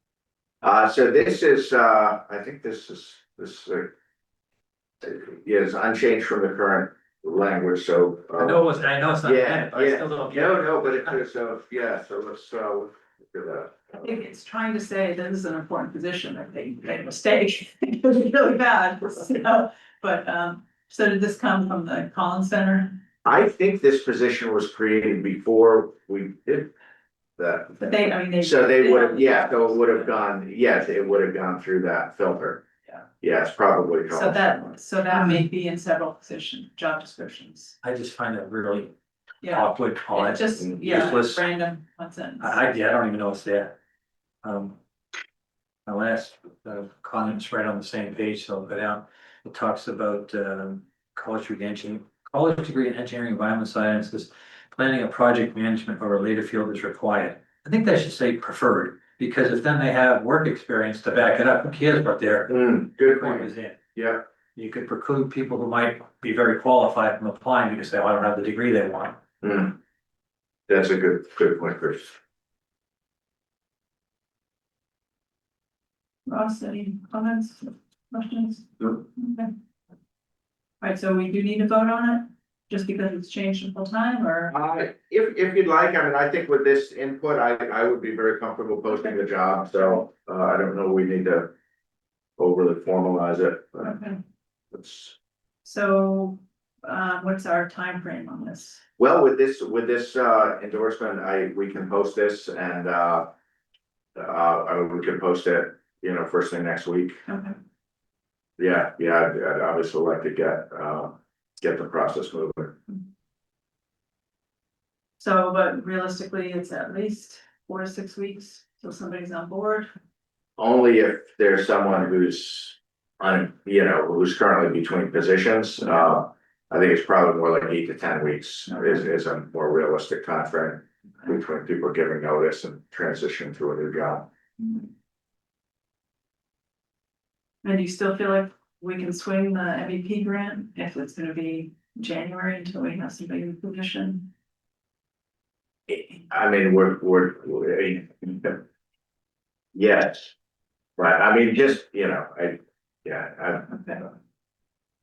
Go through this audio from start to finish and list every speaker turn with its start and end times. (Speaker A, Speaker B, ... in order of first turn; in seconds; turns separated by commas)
Speaker A: 0.6-3.9, Speaker A: 5.0-8.6, Speaker B: 8.4-11.2, Speaker A: 9.2-14.1, Speaker C: 14.0-23.0, Speaker A: 23.2-26.7, Speaker A: 27.4-32.6, Speaker C: 27.8-30.2, Speaker A: 33.2-34.7, Speaker C: 34.1-37.8, Speaker B: 37.8-38.9, Speaker C: 39.4-42.6, Speaker B: 39.5-41.4, Speaker B: 42.4-43.8, Speaker B: 44.4-44.8, Speaker B: 45.9-62.5, Speaker A: 62.5-64.2, Speaker B: 63.1-63.8, Speaker B: 64.5-69.2, Speaker A: 69.4-69.8, Speaker A: 70.7-72.1, Speaker C: 76.3-79.5, Speaker C: 80.8-84.5, Speaker A: 84.5-91.5, Speaker A: 92.4-94.0, Speaker C: 93.8-94.2, Speaker A: 94.7-95.1, Speaker C: 95.6-98.8, Speaker A: 99.0-103.3, Speaker A: 104.2-107.2, Speaker C: 107.3-107.6, Speaker A: 108.6-112.8, Speaker C: 115.2-119.9, Speaker A: 120.6-134.3, Speaker C: 137.6-144.3, Speaker A: 145.9-148.6, Speaker A: 149.7-150.3, Speaker A: 151.0-154.1, Speaker C: 153.7-154.0